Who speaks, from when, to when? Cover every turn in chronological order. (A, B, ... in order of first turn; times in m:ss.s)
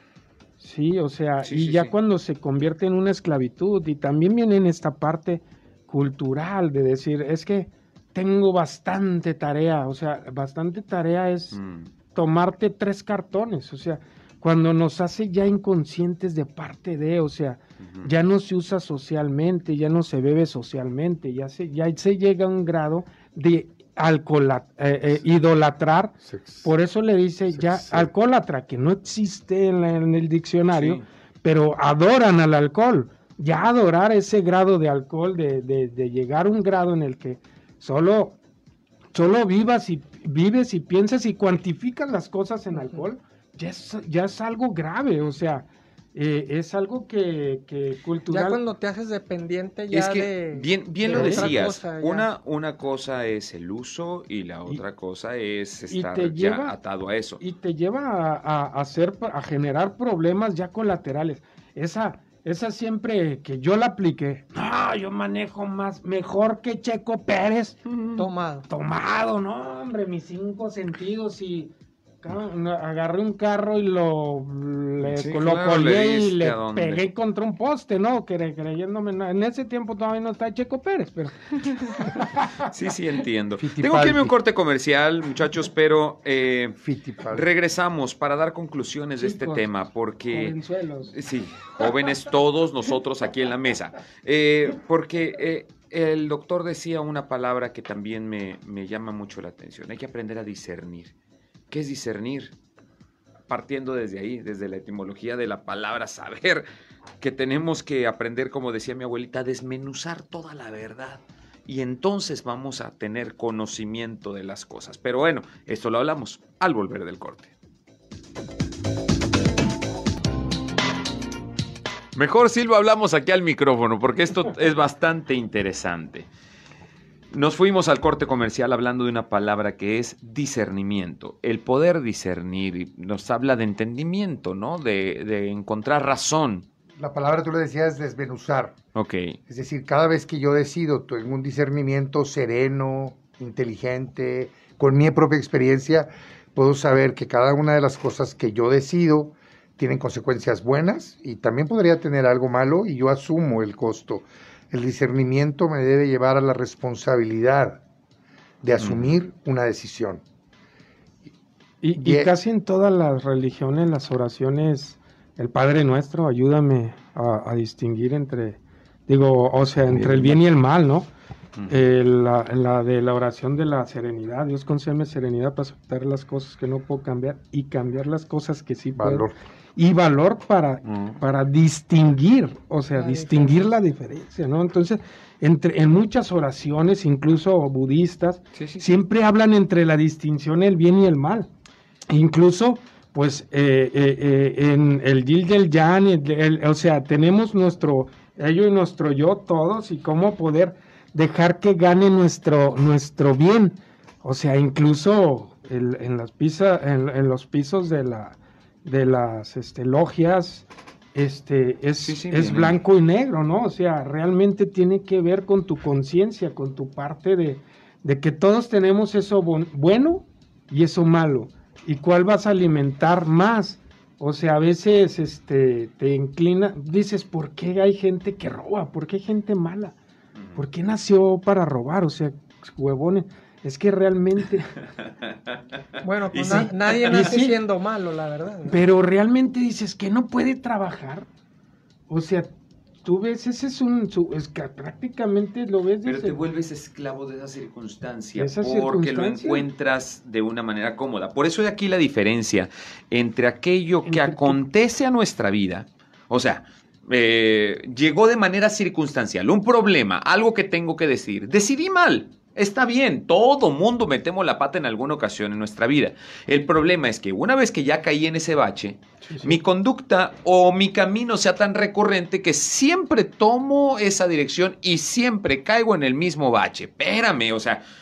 0:00.6-0:11.6 A
0:01.4-0:01.9 B
0:11.5-0:11.9 B
0:12.1-0:38.4 A
0:17.8-0:18.1 B
0:26.2-0:26.7 C
0:27.5-0:28.1 C
0:30.7-0:31.0 B
0:39.1-0:48.6 A
0:48.3-0:52.3 D
0:49.9-0:57.4 B
0:51.1-0:51.5 A
0:55.9-0:56.8 A
0:57.4-1:07.8 A
1:07.9-1:08.2 B
1:08.2-1:08.7 D
1:08.7-1:22.5 A
1:15.0-1:17.0 B
1:22.7-1:26.8 B
1:23.6-1:24.4 C
1:26.8-1:27.4 C
1:27.3-1:41.1 B
1:29.2-1:29.7 A
1:30.3-1:31.1 A
1:41.7-1:42.6 B
1:43.5-1:46.7 B
1:47.2-1:57.5 B
2:02.2-2:06.3 B
2:07.3-2:16.7 B
2:17.0-2:18.8 C
2:19.0-2:19.4 B
2:19.5-2:37.8 C
2:38.6-2:40.2 C
2:38.8-2:39.2 B
2:41.8-2:51.1 A
2:42.0-2:42.3 C
2:49.9-2:50.4 B
2:51.7-3:11.5 A
2:59.0-2:59.4 C
3:00.9-3:01.2 B
3:03.0-3:03.6 D
3:08.5-3:08.9 B
3:12.1-3:50.0 A
3:32.0-3:32.8 B
3:50.4-3:50.6 B
3:50.6-3:54.8 A
3:56.0-3:58.8 D
3:56.3-3:57.3 B
3:56.5-3:57.6 A
3:58.7-4:01.3 A
4:02.1-4:02.5 A
4:03.0-4:06.4 A
4:06.0-4:37.8 B
4:08.4-4:09.6 A
4:14.1-4:14.6 A
4:29.2-4:29.6 A